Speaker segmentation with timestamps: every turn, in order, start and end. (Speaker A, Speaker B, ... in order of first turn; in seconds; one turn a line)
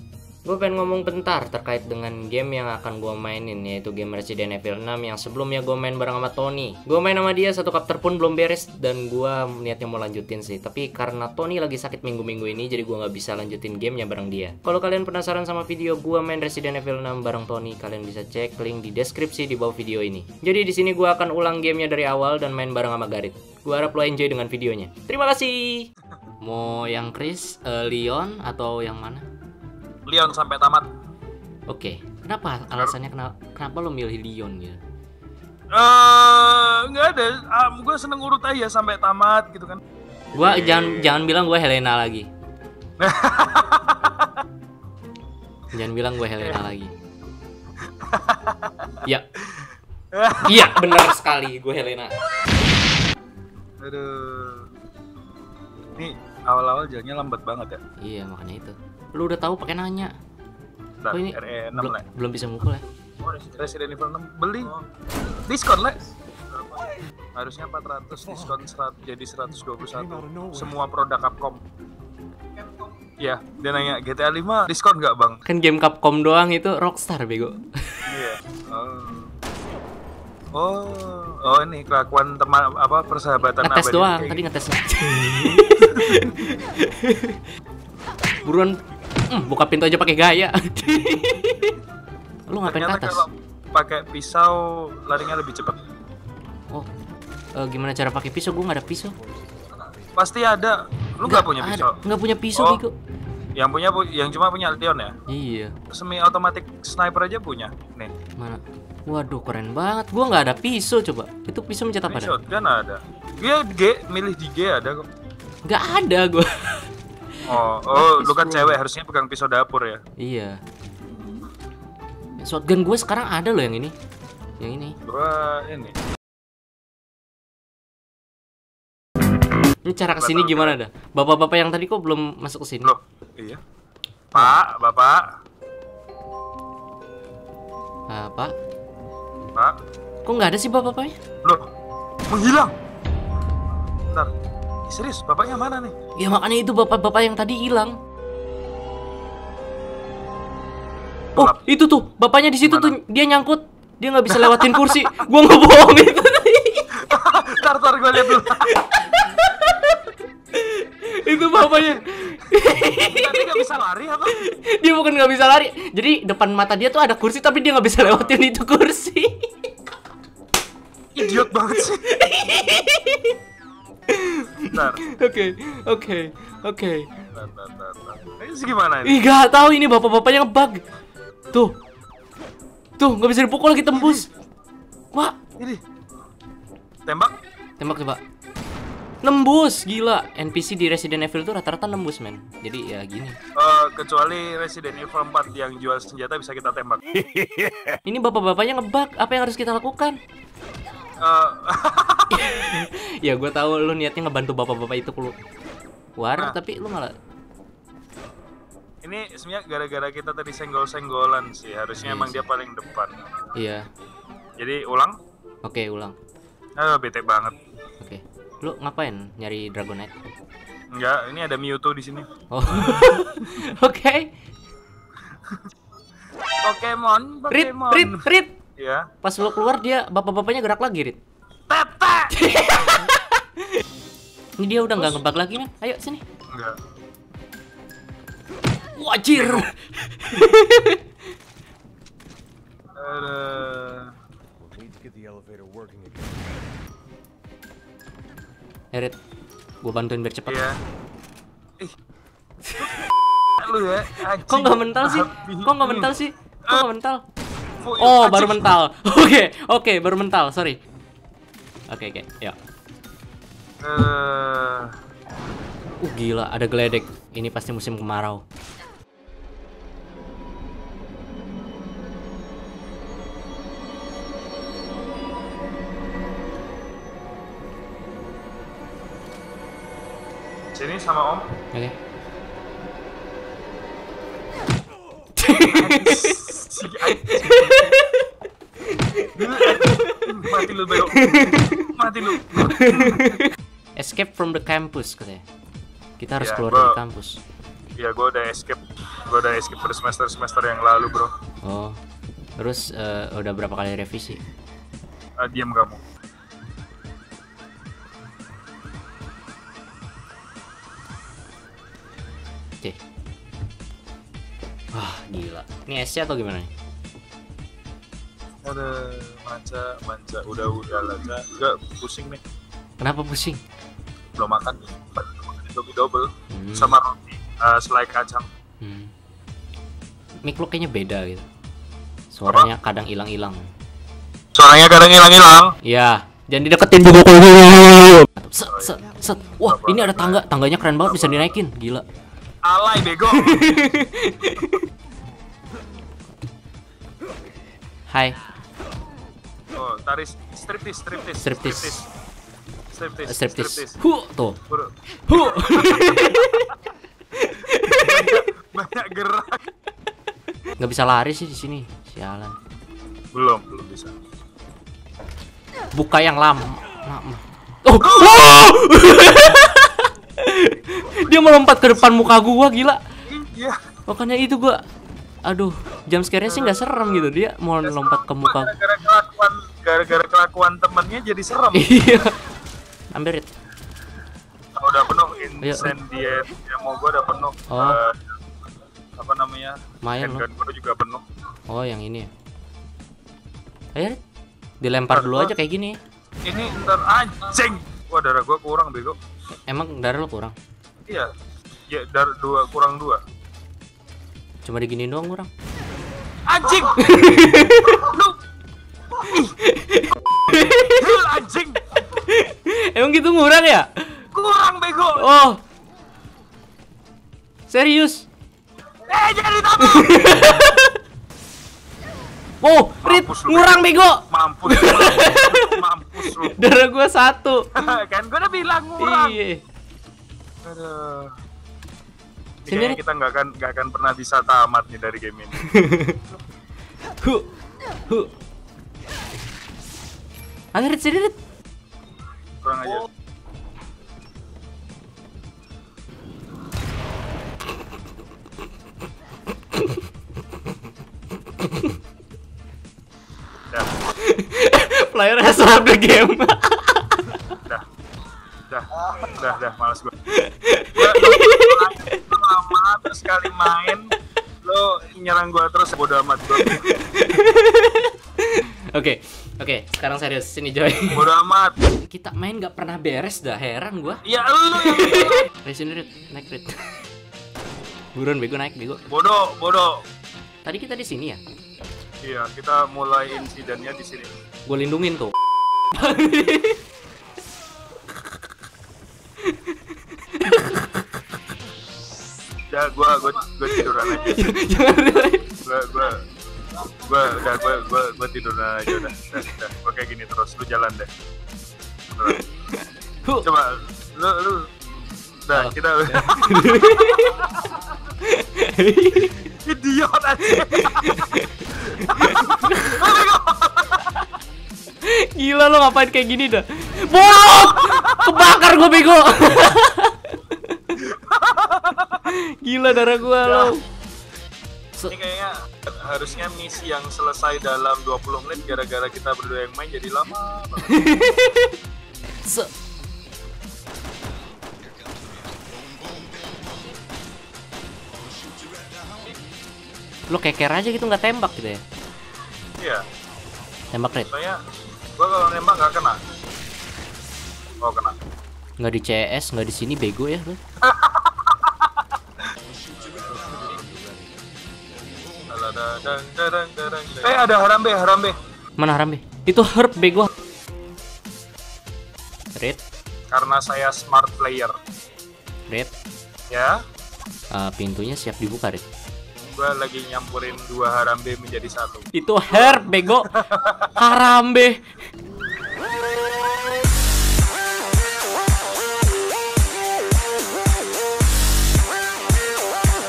Speaker A: 0.5-25.9
Speaker A: 26.4-29.3
Speaker B: 30.1-30.9
Speaker A: 31.7-34.8
Speaker B: 35.7-39.8
Speaker B: 40.3-41.3
Speaker A: 40.4-42.3
Speaker B: 43.0-44.4
Speaker A: 45.7-46.9
Speaker B: 47.9-51.1
Speaker A: 50.5-52.1
Speaker B: 53.8-54.7
Speaker B: 56.0-57.8
Speaker A: 58.0-60.1
Speaker B: 61.0-62.0
Speaker A: 61.1-62.9
Speaker B: 63.3-64.8
Speaker B: 65.5-66.0
Speaker B: 66.5-71.6
Speaker B: 73.2-75.5
Speaker A: 75.5-78.0
Speaker B: 78.1-79.3
Speaker B: 80.5-84.5
Speaker A: 83.6-87.4
Speaker B: 85.5-86.3
Speaker A: 88.4-88.8
Speaker A: 89.3-91.8
Speaker A: 92.5-93.3
Speaker B: 92.7-95.8
Speaker A: 97.6-99.2
Speaker B: 99.9-102.0
Speaker A: 101.2-102.9
Speaker B: 102.5-102.8
Speaker B: 103.6-105.1
Speaker A: 105.3-105.7
Speaker B: 105.9-108.1
Speaker A: 108.4-112.3
Speaker B: 112.1-115.1
Speaker A: 115.7-116.9
Speaker B: 117.5-120.0
Speaker A: 117.9-118.8
Speaker A: 120.2-120.6
Speaker A: 122.4-123.9
Speaker A: 124.6-125.0
Speaker B: 125.1-125.9
Speaker A: 129.9-132.9
Speaker B: 130.2-130.8
Speaker B: 132.8-133.6
Speaker B: 134.3-135.3
Speaker A: 138.1-138.5
Speaker A: 140.3-141.2
Speaker B: 142.3-142.7
Speaker B: 144.9-145.9
Speaker A: 146.2-147.9
Speaker B: 151.3-151.6
Speaker A: 151.4-156.9
Speaker B: 152.6-152.9
Speaker B: 154.3-155.3
Speaker B: 157.0-158.7
Speaker A: 158.3-163.6
Speaker B: 161.3-161.9
Speaker B: 163.1-164.5
Speaker A: 164.3-169.8
Speaker B: 168.0-168.4
Speaker B: 171.2-172.1
Speaker A: 171.2-173.4
Speaker A: 174.1-177.1
Speaker B: 174.7-175.0
Speaker B: 177.3-179.2
Speaker A: 179.1-180.8
Speaker A: 183.0-184.3
Speaker B: 183.9-184.2
Speaker B: 187.1-187.3
Speaker A: 187.8-188.2
Speaker A: 189.2-193.4
Speaker B: 193.6-197.2
Speaker C: 197.2-197.9
Speaker A: 198.1-200.2
Speaker B: 201.2-202.4
Speaker A: 202.3-205.4
Speaker A: 206.2-207.1
Speaker B: 209.0-213.2
Speaker A: 212.0-212.4
Speaker A: 213.6-213.9
Speaker B: 214.6-215.2
Speaker A: 215.7-216.2
Speaker B: 216.8-217.6
Speaker A: 218.0-220.2
Speaker B: 220.9-223.6
Speaker A: 222.5-224.3
Speaker B: 226.6-228.3
Speaker A: 227.5-228.6
Speaker B: 228.8-229.1
Speaker A: 229.2-231.2
Speaker B: 231.7-232.4
Speaker A: 232.3-233.8
Speaker A: 234.6-236.2
Speaker B: 234.9-235.2
Speaker B: 236.5-236.8
Speaker A: 239.0-241.0
Speaker B: 239.4-239.7
Speaker B: 243.0-244.1
Speaker C: 244.7-246.3
Speaker A: 249.8-250.7
Speaker B: 250.5-250.8
Speaker B: 253.6-256.1
Speaker A: 254.4-257.2
Speaker B: 257.8-258.7
Speaker A: 258.0-260.8
Speaker A: 261.9-262.6
Speaker B: 263.8-264.9
Speaker A: 266.0-268.4
Speaker B: 280.7-281.5
Speaker A: 285.4-286.3
Speaker B: 285.5-287.9
Speaker A: 287.2-288.3
Speaker A: 288.9-291.9
Speaker B: 289.4-293.3
Speaker A: 292.5-295.4
Speaker A: 296.2-297.4
Speaker B: 296.4-297.0
Speaker B: 298.0-301.3
Speaker A: 301.6-302.0
Speaker A: 302.6-304.4
Speaker B: 305.4-306.0
Speaker A: 314.9-316.7
Speaker B: 318.6-322.4
Speaker A: 323.0-323.6
Speaker B: 324.4-328.5
Speaker A: 326.5-327.0
Speaker A: 328.8-329.1
Speaker A: 330.4-331.5
Speaker A: 332.3-333.7
Speaker B: 334.6-335.8
Speaker A: 335.8-342.1
Speaker B: 338.7-339.0
Speaker B: 339.6-340.5
Speaker B: 341.0-341.5
Speaker B: 342.6-343.7
Speaker A: 343.3-344.9
Speaker A: 348.1-348.4
Speaker B: 349.8-352.1
Speaker A: 351.4-352.0
Speaker B: 352.9-354.0
Speaker A: 353.3-354.6
Speaker B: 354.7-356.6
Speaker A: 355.3-356.7
Speaker A: 357.4-358.5
Speaker B: 357.9-359.7
Speaker A: 360.8-362.6
Speaker B: 363.3-364.1
Speaker A: 365.9-373.0
Speaker B: 368.0-368.6
Speaker B: 373.3-373.8
Speaker A: 374.1-374.8
Speaker A: 375.4-378.7
Speaker B: 376.5-377.3
Speaker B: 377.8-382.2
Speaker A: 381.7-382.4
Speaker A: 383.1-383.5
Speaker B: 384.8-388.2
Speaker A: 385.6-385.9
Speaker A: 387.7-388.0
Speaker B: 389.2-391.2
Speaker A: 390.0-390.4
Speaker A: 391.7-392.3
Speaker A: 394.8-396.0
Speaker B: 395.1-395.5
Speaker B: 396.5-399.2
Speaker A: 399.7-400.6
Speaker B: 401.9-403.2
Speaker A: 404.6-405.5
Speaker B: 406.5-408.4
Speaker A: 407.0-408.1
Speaker B: 409.2-409.5
Speaker A: 409.3-411.1
Speaker B: 410.8-411.8
Speaker A: 412.1-414.2
Speaker B: 414.3-415.2
Speaker A: 415.2-415.6
Speaker A: 417.7-418.3
Speaker B: 419.1-420.7
Speaker A: 419.8-421.0
Speaker A: 422.6-427.8
Speaker B: 423.0-426.6
Speaker B: 427.8-429.4
Speaker A: 429.0-429.6
Speaker B: 430.6-431.4
Speaker B: 432.6-435.6
Speaker A: 432.7-433.0
Speaker A: 435.6-436.2
Speaker A: 440.7-441.4
Speaker B: 442.6-443.1
Speaker A: 451.6-451.9
Speaker A: 454.1-457.6
Speaker B: 458.7-460.1
Speaker A: 460.3-462.2
Speaker B: 461.0-464.1
Speaker B: 464.6-466.9
Speaker A: 466.6-471.3
Speaker B: 471.1-471.8
Speaker A: 472.1-474.2
Speaker B: 474.2-475.5
Speaker A: 474.8-477.1
Speaker A: 478.1-479.0
Speaker B: 479.1-480.0
Speaker A: 480.6-481.4
Speaker B: 482.2-484.3
Speaker A: 484.7-485.3
Speaker A: 485.9-486.8
Speaker A: 489.5-491.0
Speaker B: 492.7-494.6
Speaker A: 493.7-495.5
Speaker B: 495.6-496.2
Speaker B: 497.0-501.1
Speaker B: 502.1-502.4
Speaker B: 503.4-504.7
Speaker B: 505.5-507.8
Speaker A: 505.5-507.5
Speaker A: 508.2-509.5
Speaker B: 509.4-511.5
Speaker A: 510.6-513.0
Speaker B: 512.0-514.3
Speaker A: 515.0-520.8
Speaker B: 517.5-518.6
Speaker B: 521.0-522.2
Speaker A: 522.3-523.8
Speaker B: 523.4-523.8
Speaker B: 525.1-531.3
Speaker A: 530.9-531.7
Speaker A: 540.3-541.8
Speaker A: 543.9-544.3
Speaker B: 544.3-544.6
Speaker B: 545.2-546.2
Speaker B: 547.8-548.2
Speaker A: 548.8-550.6
Speaker B: 550.8-552.0
Speaker B: 553.0-553.9
Speaker B: 555.5-558.4
Speaker A: 558.8-560.3
Speaker B: 563.3-564.8
Speaker B: 566.5-566.8
Speaker A: 567.5-568.8
Speaker B: 569.4-574.0
Speaker A: 572.1-573.3
Speaker A: 574.0-574.8